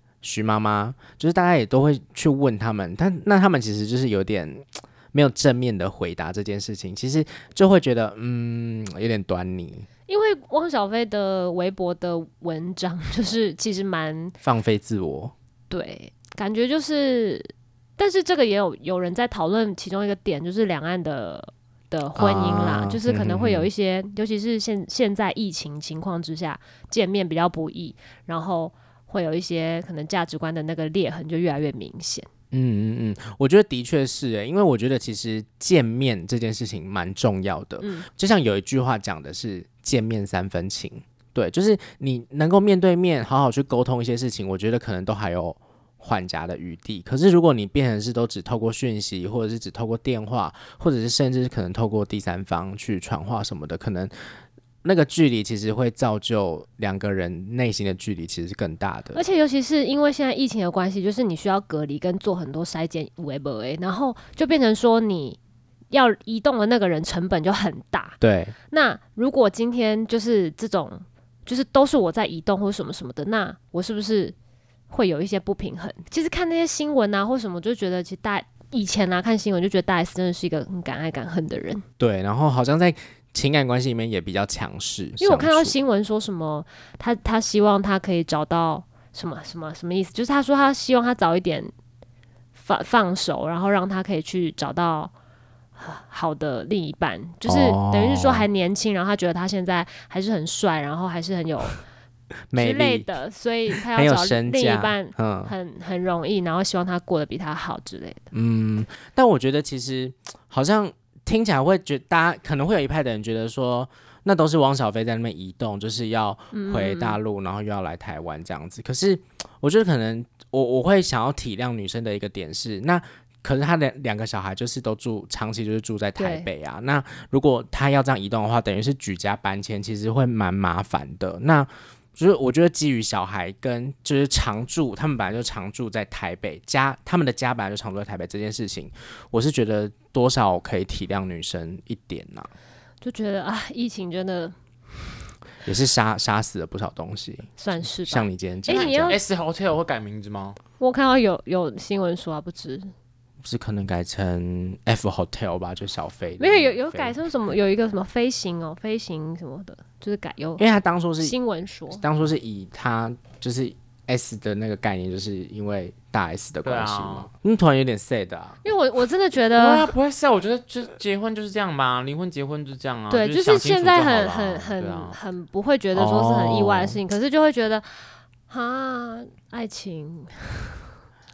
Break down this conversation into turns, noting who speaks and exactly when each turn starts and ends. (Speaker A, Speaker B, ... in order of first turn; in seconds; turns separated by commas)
Speaker A: 0.2-9.9, Speaker B: 10.1-14.4, Speaker A: 14.4-15.3, Speaker B: 15.7-32.3, Speaker A: 22.1-23.7, Speaker A: 32.5-54.1, Speaker B: 37.8-38.1, Speaker A: 54.8-59.2, Speaker B: 59.1-65.4, Speaker B: 65.9-68.2, Speaker A: 68.2-68.5, Speaker B: 68.7-74.3, Speaker B: 74.9-81.8, Speaker A: 82.0-85.8, Speaker B: 85.2-91.7, Speaker B: 92.5-95.1, Speaker B: 95.8-101.8, Speaker A: 97.5-98.5, Speaker A: 102.5-103.1, Speaker B: 102.5-108.3, Speaker A: 103.9-105.5, Speaker A: 108.3-142.5, Speaker B: 116.5-117.2, Speaker B: 126.2-126.5, Speaker B: 143.0-144.6, Speaker A: 145.7-149.2, Speaker B: 147.6-149.2, Speaker C: 148.7-150.6, Speaker B: 150.8-152.9, Speaker A: 153.4-157.2, Speaker B: 156.4-160.7, Speaker A: 160.6-161.4, Speaker B: 161.2-162.0, Speaker A: 161.9-168.6, Speaker C: 166.6-167.3, Speaker B: 168.6-169.9, Speaker C: 169.6-175.2, Speaker B: 173.1-180.9, Speaker A: 175.9-177.0